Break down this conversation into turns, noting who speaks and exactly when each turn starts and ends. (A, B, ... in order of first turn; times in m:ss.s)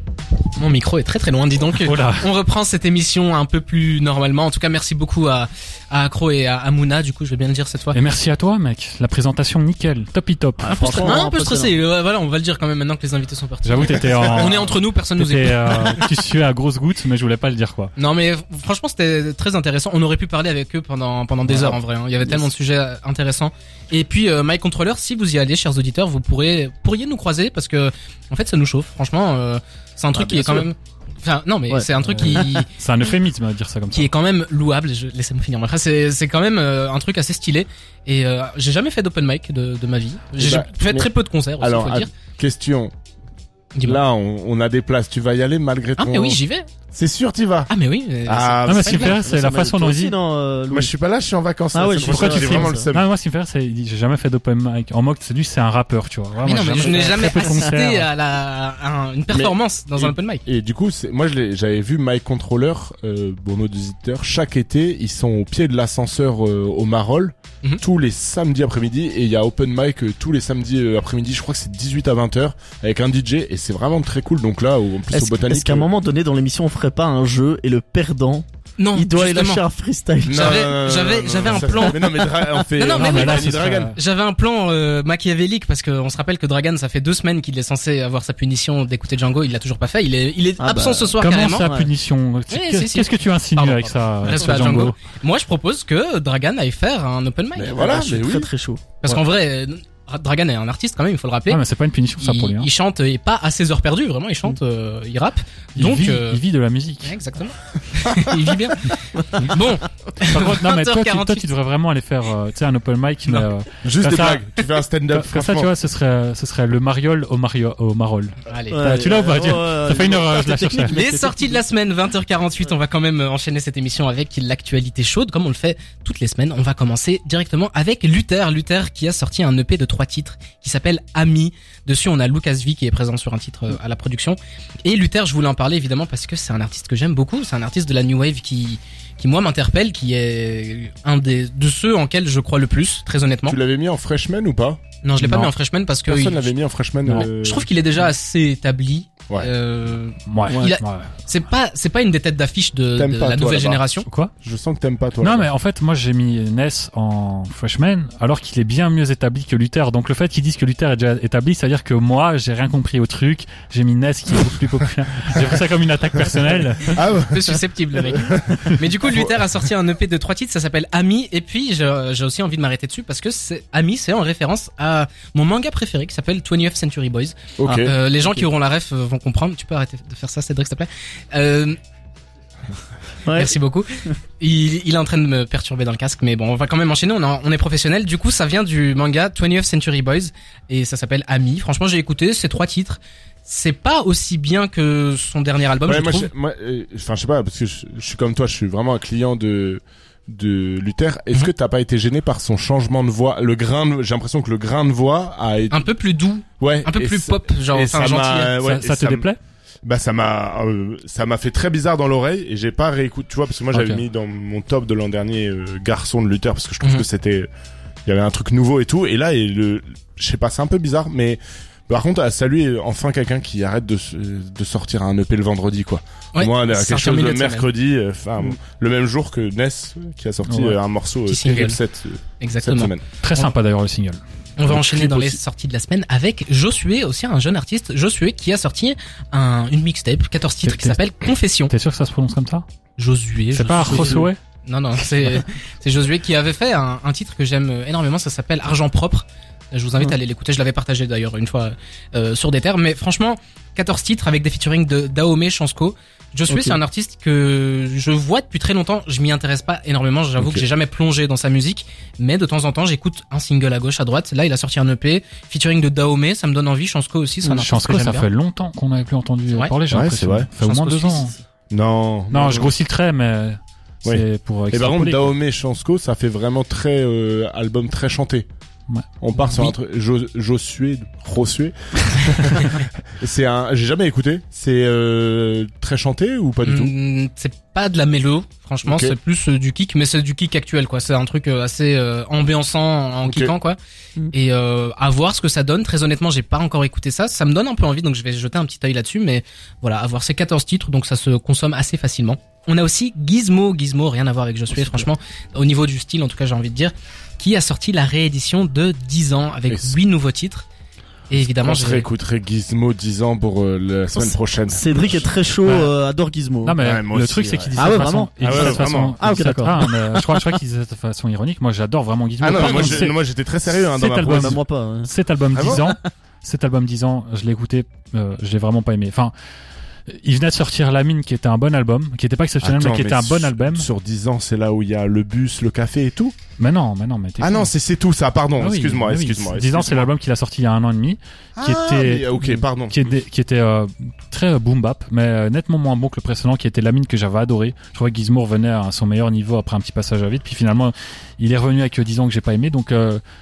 0:00.6-0:08.0 A
0:01.8-0:02.3 B
0:07.9-0:11.2 B
0:10.6-0:11.8 C
0:10.7-0:16.1 A
0:13.6-0:17.9 B
0:18.0-0:32.7 A
0:21.5-0:22.5 C
0:30.2-0:30.6 C
0:30.2-0:30.6 D
0:31.7-0:32.6 C
0:32.7-0:34.1 B
0:33.9-0:42.1 A
0:40.4-0:42.9 D
0:43.8-0:44.0 A
0:43.8-0:46.4 D
0:46.0-0:46.7 A
0:46.9-0:47.7 D
0:47.7-0:49.1 A
0:48.3-0:49.2 D
0:48.7-0:50.2 B
0:49.1-0:50.9 C
0:50.7-0:53.1 D
0:51.7-0:52.9 C
0:52.0-0:58.1 B
0:56.4-1:00.4 A
0:56.6-0:57.5 C
0:59.3-1:15.9 D
1:15.1-1:20.7 C
1:18.8-1:19.6 A
1:20.2-1:23.9 D
1:20.3-1:22.0 A
1:22.8-1:31.7 A
1:22.9-1:24.0 B
1:30.6-1:31.9 C
1:31.2-1:35.0 B
1:32.5-1:38.1 A
1:37.6-1:38.5 D
1:37.8-1:38.8 C
1:39.0-1:41.6 A
1:41.5-1:42.7 B
1:42.2-1:46.4 A
1:45.8-1:47.2 B
1:47.0-1:51.5 A
1:50.2-1:54.6 B
1:53.8-1:55.7 D
1:55.1-2:01.0 B
1:58.5-1:58.9 A
1:58.7-2:01.6 C
2:00.9-2:23.6 A
2:23.5-2:24.8 D
2:25.0-2:26.6 A
2:25.2-2:25.5 B
2:26.1-2:27.7 D
2:27.2-2:34.1 A
2:30.3-2:31.1 B
2:33.0-2:33.8 D
2:34.0-2:34.3 B
2:34.4-2:35.5 D
2:35.2-2:47.0 B
2:47.0-2:49.4 D
2:47.3-3:01.8 A
2:57.6-2:57.9 D
3:03.3-3:03.6 C
3:03.3-3:03.9 A
3:04.4-3:16.3 A
3:15.8-3:25.9 D
3:25.7-3:28.6 A
3:26.6-3:29.3 D
3:28.6-3:29.4 B
3:29.8-3:37.5 D
3:33.7-3:34.0 B
3:38.1-3:53.0 D
3:46.4-3:47.7 A
3:50.4-3:50.8 B
3:51.3-3:51.8 A
3:52.4-3:53.5 A
3:53.2-3:54.2 B
3:54.6-4:01.7 A
3:54.7-3:55.4 D
4:00.6-4:01.0 B
4:01.7-4:02.6 B
4:03.0-4:28.3 A
4:03.5-4:04.4 B
4:03.9-4:04.3 C
4:16.5-4:16.8 C
4:20.4-4:20.6 D
4:27.4-4:31.3 B
4:29.5-4:29.7 A
4:29.9-4:30.5 D
4:30.6-4:31.4 A
4:31.7-4:32.8 D
4:32.3-4:35.4 B
4:34.0-4:38.5 D
4:39.2-4:46.9 D
4:46.6-4:53.8 A
4:48.9-4:49.2 D
4:53.3-4:53.5 D
4:54.3-5:10.7 A
5:04.7-5:05.1 C
5:09.7-5:10.0 D
5:11.3-5:12.1 A
5:11.6-5:15.3 D
5:14.1-5:16.8 C
5:15.6-5:15.9 B
5:16.6-5:23.2 B
5:16.8-5:19.2 D
5:17.8-5:20.5 C
5:22.4-5:24.6 D
5:22.6-5:23.0 C
5:23.7-5:29.3 B
5:24.4-5:25.1 C
5:25.5-5:25.8 D
5:30.1-5:33.9 B
5:32.6-5:36.4 D
5:36.6-5:37.7 B
5:37.4-5:40.1 D
5:38.6-5:53.2 B
5:41.6-5:43.1 D